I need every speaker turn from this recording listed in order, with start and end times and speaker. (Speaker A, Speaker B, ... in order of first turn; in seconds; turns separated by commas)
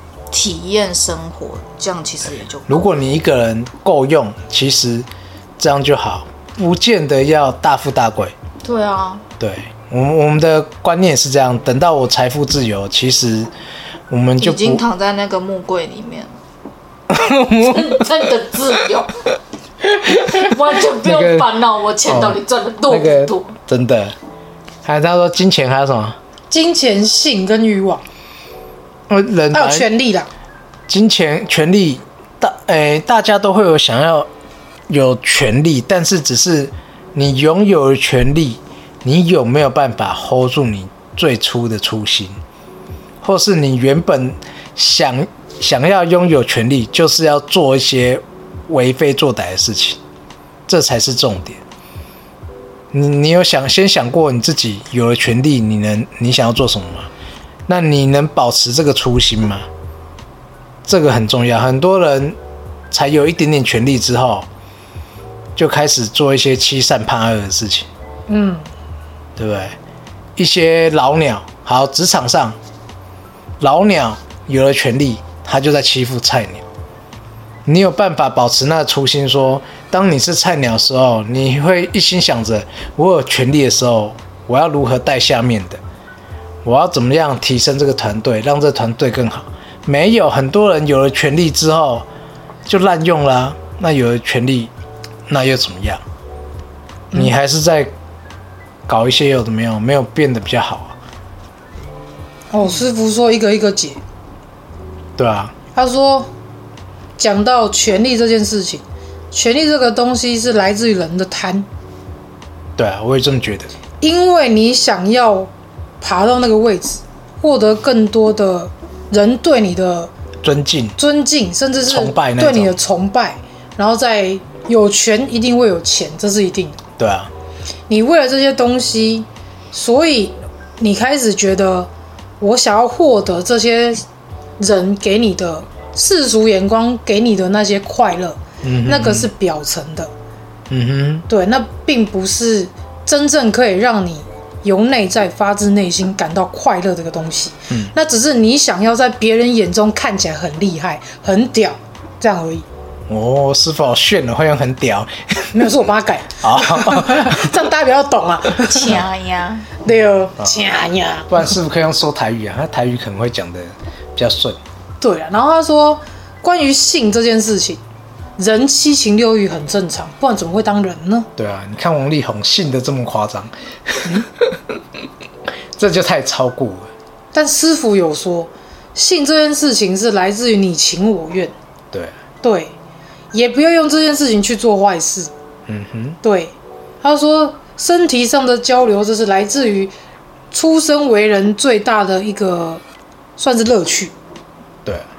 Speaker A: 0.3-2.9, Speaker B: 2.7-5.1, Speaker B: 5.6-8.3, Speaker A: 8.6-9.2, Speaker B: 9.4-13.5, Speaker B: 14.1-14.8, Speaker A: 14.4-16.3, Speaker B: 17.1-18.0, Speaker A: 17.6-19.2, Speaker B: 20.0-21.5, Speaker A: 20.1-23.6, Speaker B: 22.1-24.1, Speaker B: 24.8-26.2, Speaker C: 26.5-28.0, Speaker B: 29.1-29.9, Speaker C: 29.5-30.3, Speaker B: 30.9-34.3, Speaker B: 34.9-42.4, Speaker B: 43.2-50.0, Speaker B: 50.7-51.6, Speaker B: 52.9-57.1, Speaker B: 57.7-59.7, Speaker B: 60.8-62.4, Speaker B: 62.9-64.5, Speaker B: 65.5-67.9, Speaker C: 68.3-68.7, Speaker B: 69.4-69.8, Speaker B: 70.4-72.6, Speaker B: 73.6-76.6, Speaker B: 77.7-85.8, Speaker B: 86.6-92.1, Speaker B: 92.7-94.7, Speaker B: 95.3-96.0, Speaker B: 97.1-97.9, Speaker B: 98.9-101.0, Speaker C: 102.5-104.0, Speaker B: 105.2-105.5, Speaker C: 105.7-106.3, Speaker C: 107.2-111.7, Speaker B: 112.8-113.7, Speaker C: 114.0-120.1, Speaker B: 120.4-121.0, Speaker C: 121.0-126.8, Speaker B: 121.9-122.8, Speaker B: 127.0-127.3, Speaker C: 127.9-134.0, Speaker C: 134.6-140.1, Speaker B: 138.6-139.3, Speaker B: 140.7-141.2, Speaker C: 141.3-152.7, Speaker B: 153.1-155.8, Speaker C: 155.5-159.0, Speaker B: 156.4-157.5, Speaker A: 158.7-159.7, Speaker C: 159.8-161.3, Speaker B: 160.4-160.7, Speaker B: 161.3-164.6, Speaker C: 165.0-167.8, Speaker C: 168.4-171.3, Speaker B: 171.3-174.8, Speaker B: 175.8-176.9, Speaker C: 177.3-181.5, Speaker C: 182.4-182.7, Speaker C: 183.3-185.3, Speaker B: 185.7-186.2, Speaker C: 186.2-189.9, Speaker C: 190.5-192.8, Speaker C: 193.4-194.1